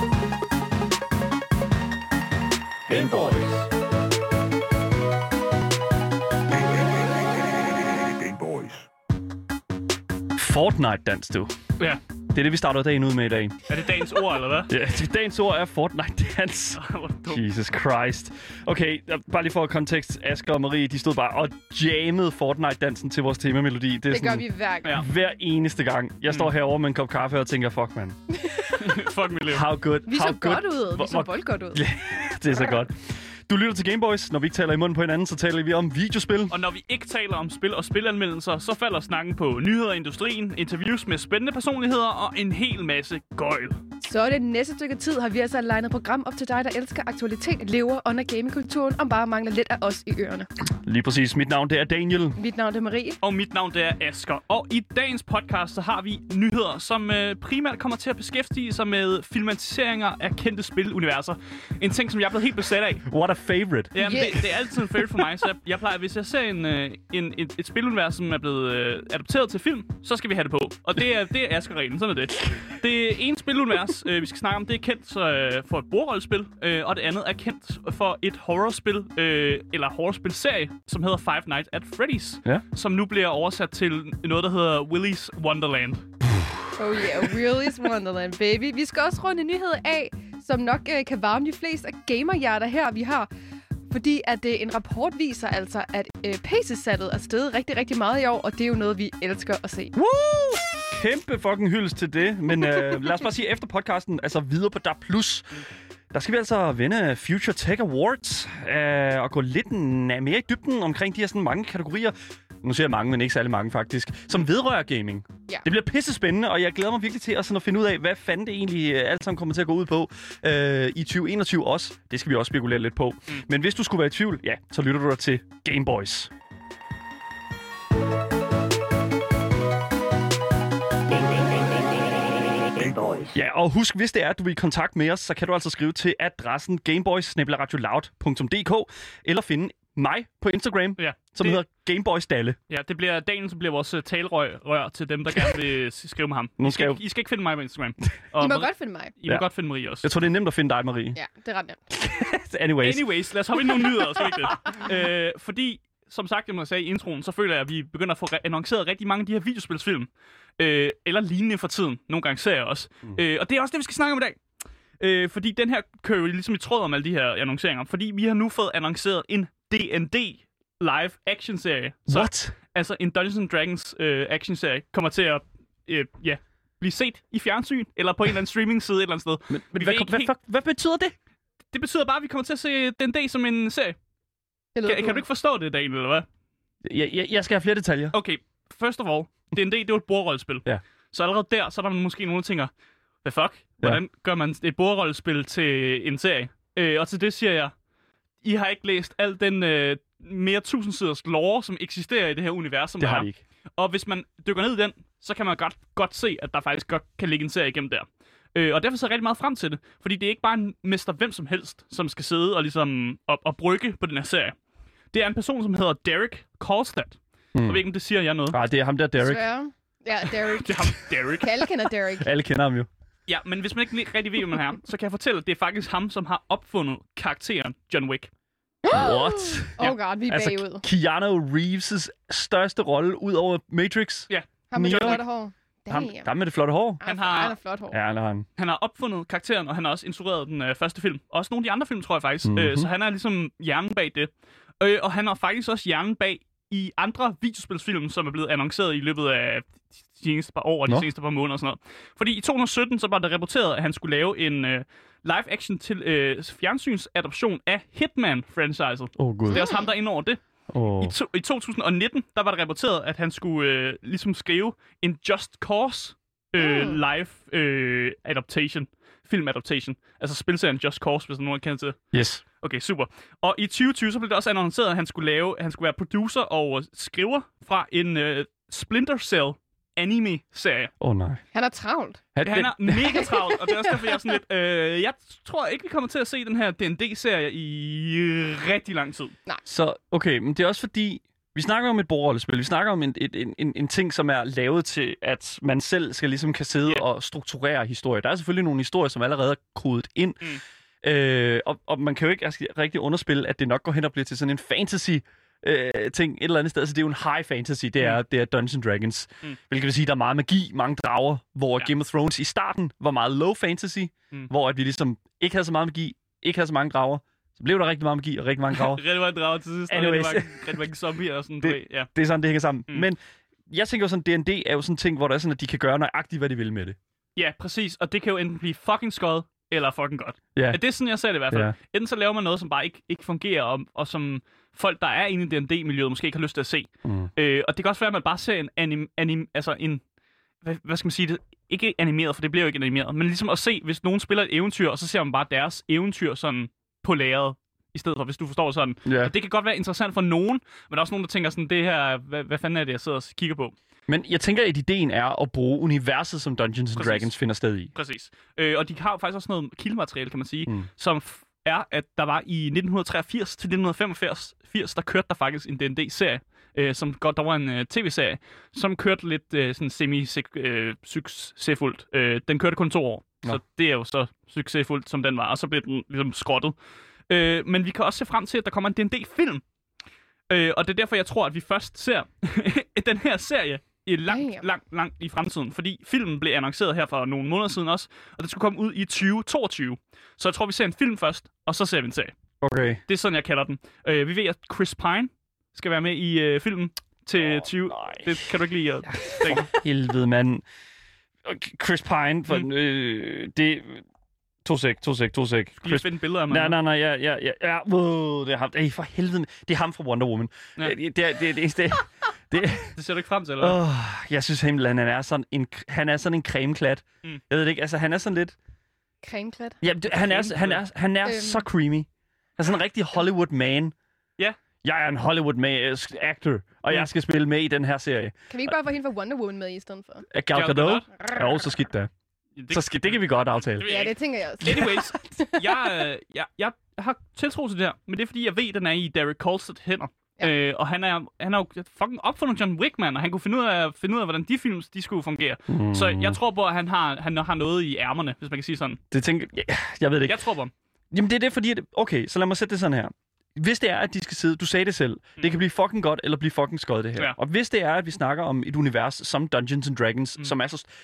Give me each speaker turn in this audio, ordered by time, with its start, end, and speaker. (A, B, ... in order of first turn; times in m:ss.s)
0:02.9-0:03.7 A
0:06.5-0:08.8 A
0:10.3-0:11.5 B
0:12.3-0:13.7 B
0:13.7-0:14.7 C
0:14.7-0:28.2 B
0:16.8-0:17.4 C
0:24.1-0:25.0 D
0:28.4-0:28.7 D
0:28.7-0:29.7 C
0:29.5-0:36.6 B
0:30.1-0:31.8 D
0:36.5-0:43.8 C
0:44.0-0:50.5 D
0:50.8-0:52.4 B
0:52.4-0:53.2 D
0:53.2-1:03.0 C
1:03.1-1:05.0 B
1:03.9-1:26.0 C
1:04.0-1:04.4 D
1:26.8-1:33.3 D
1:33.9-1:39.9 D
1:39.9-2:06.3 B
2:12.6-2:13.3 A
2:13.3-2:22.6 B
2:21.0-2:21.6 C
2:22.7-2:30.1 C
2:26.6-2:27.0 B
2:28.4-2:29.1 D
2:30.0-2:31.2 B
2:31.1-2:31.8 D
2:31.9-2:33.1 B
2:32.8-2:44.4 C
2:45.0-3:00.3 C
2:52.1-2:52.5 B
2:59.5-3:01.1 B
3:01.7-3:04.0 C
3:04.7-3:05.2 D
3:04.8-3:06.2 C
3:06.8-3:08.2 B
3:08.1-3:12.7 C
3:13.2-3:17.7 C
3:18.4-3:34.5 C
3:23.0-3:23.4 B
3:35.1-3:38.6 C
3:37.5-3:37.8 B
3:38.5-3:39.4 B
3:39.2-3:42.3 D
3:40.4-3:41.6 C
3:42.2-3:42.9 B
3:43.3-3:48.3 C
3:48.8-3:50.8 D
3:48.9-3:55.2 B
3:54.3-3:55.2 C
3:54.7-3:56.3 D
3:55.9-3:57.0 B
3:57.0-3:58.0 D
3:57.0-3:57.6 C
3:57.9-3:58.4 B
3:58.6-4:20.4 C
4:02.4-4:02.9 B
4:19.2-4:19.6 B
4:19.5-4:19.9 D
4:20.7-4:21.1 B
4:21.0-4:32.0 C
4:26.6-4:27.0 D
4:32.1-4:32.4 B
4:32.6-4:40.9 C
4:41.0-4:41.4 B
4:41.5-4:42.2 D
4:42.3-4:43.2 B
4:42.4-4:49.3 C
4:43.2-4:44.0 D
4:49.6-5:19.0 B
5:18.7-5:22.1 C
5:19.9-5:20.8 B
5:21.6-5:27.0 B
5:27.4-5:40.0 C
5:37.0-5:37.3 B
5:40.6-5:53.7 C
5:49.0-5:49.3 B
5:54.1-5:57.9 B
5:57.0-5:57.3 C
5:57.9-6:16.7 C
6:17.3-6:19.6 C
6:20.5-6:32.3 C
6:24.3-6:24.6 D
6:32.6-6:33.0 B
6:33.1-6:39.6 C
6:37.4-6:38.5 B
6:39.3-6:40.6 B
6:41.4-6:44.0 B
6:44.6-6:52.9 B
6:45.8-6:46.8 C
6:52.9-6:53.8 C
6:53.6-6:58.5 B
6:59.2-6:59.8 D
6:59.8-7:02.1 B
7:00.1-7:00.8 C
7:01.2-7:01.6 D
7:02.6-7:03.9 B
7:04.8-7:08.7 B
7:08.5-7:10.2 D
7:10.3-7:12.1 B
7:10.5-7:11.1 C
7:12.6-7:29.0 C
7:12.7-7:13.9 B
7:13.8-7:15.6 D
7:25.7-7:26.4 B
7:29.1-7:30.4 B
7:30.2-7:30.7 C
7:31.1-7:40.9 B